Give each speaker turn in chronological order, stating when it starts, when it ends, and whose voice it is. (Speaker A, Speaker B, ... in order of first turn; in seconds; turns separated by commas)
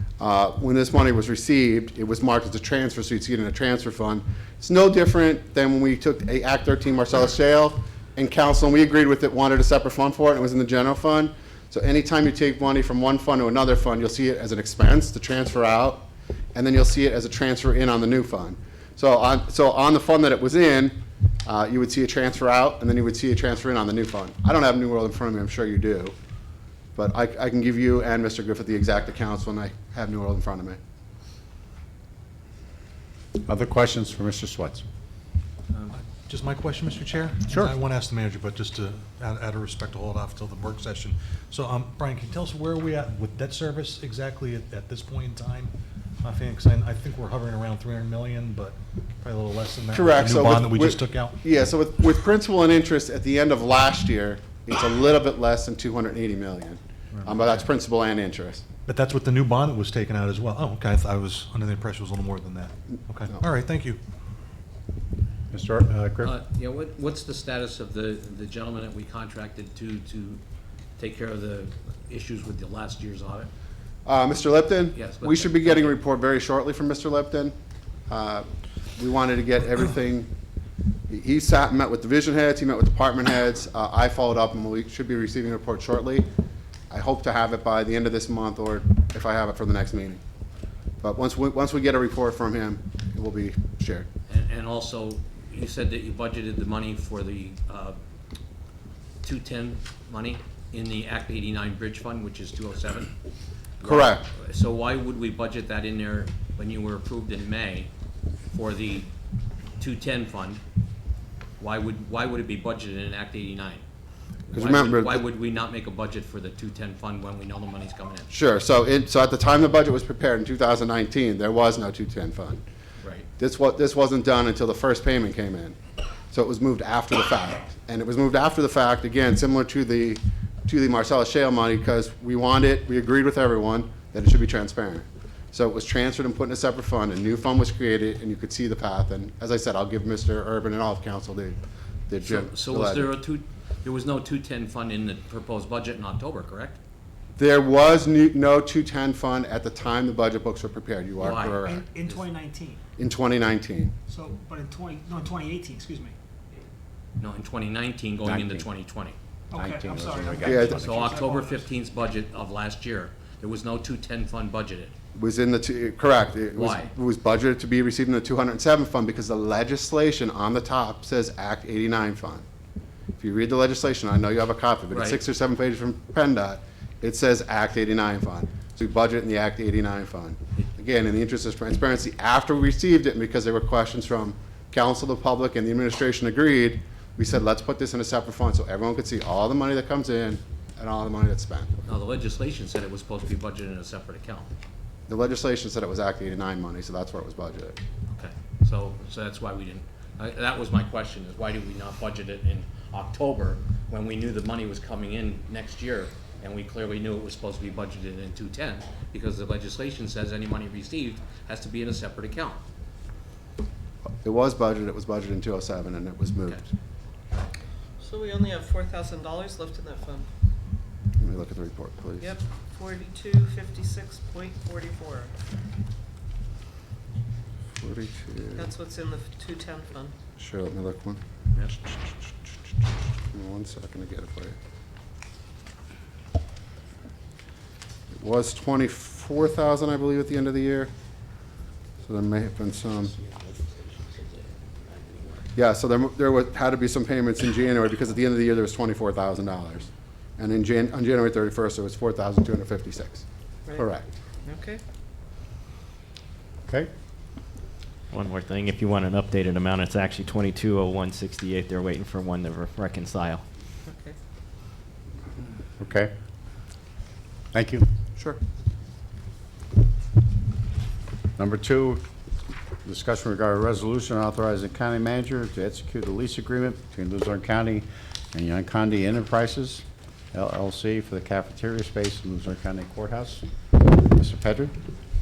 Speaker A: 0.2-26.1, Speaker A: 26.9-30.8, Speaker B: 33.4-34.8, Speaker C: 35.9-45.7, Speaker C: 46.2-51.4, Speaker A: 49.9-58.6, Speaker C: 57.2-57.6, Speaker C: 58.9-64.0, Speaker B: 65.5-66.3, Speaker D: 66.2-70.4, Speaker D: 71.0-73.5, Speaker A: 74.0-77.5, Speaker D: 74.9-76.0, Speaker A: 78.1-78.5, Speaker A: 79.0-80.3, Speaker A: 81.1-86.3, Speaker A: 86.9-90.2, Speaker A: 91.0-94.1, Speaker D: 94.3-98.0, Speaker D: 99.2-103.1, Speaker D: 103.8-107.9, Speaker A: 103.8-104.3, Speaker D: 108.5-109.1, Speaker D: 109.8-110.6, Speaker D: 111.6-113.8, Speaker D: 114.5-118.3, Speaker A: 114.5-115.2, Speaker A: 118.3-122.6, Speaker D: 123.0-123.2, Speaker A: 123.4-125.8, Speaker A: 126.3-141.6, Speaker A: 142.1-143.1, Speaker D: 142.2-146.8, Speaker A: 147.3-151.8, Speaker D: 151.2-152.2, Speaker E: 151.6-152.8, Speaker A: 153.0-153.9, Speaker E: 154.1-156.1, Speaker D: 157.2-159.2, Speaker B: 158.2-158.7, Speaker E: 159.5-161.6, Speaker B: 159.5-160.6, Speaker A: 160.4-161.0, Speaker D: 160.6-164.9, Speaker A: 165.1-172.4, Speaker D: 166.5-166.9, Speaker A: 173.2-191.7, Speaker D: 174.9-175.2, Speaker D: 191.8-194.5, Speaker A: 195.1-197.8, Speaker D: 198.1-212.6, Speaker A: 214.2-216.6, Speaker F: 218.0-220.3, Speaker A: 221.2-222.3, Speaker F: 222.2-225.3, Speaker A: 227.8-228.7, Speaker F: 228.6-230.1, Speaker A: 230.4-231.2, Speaker D: 231.5-231.9, Speaker A: 233.3-234.6, Speaker A: 238.1-240.9, Speaker A: 242.0-243.2, Speaker D: 243.3-244.3, Speaker A: 245.5-254.1, Speaker F: 254.4-254.8, Speaker G: 258.1-263.4, Speaker F: 263.9-264.1, Speaker B: 265.8-266.1, Speaker B: 267.5-267.9, Speaker B: 271.4-272.0, Speaker B: 272.8-284.7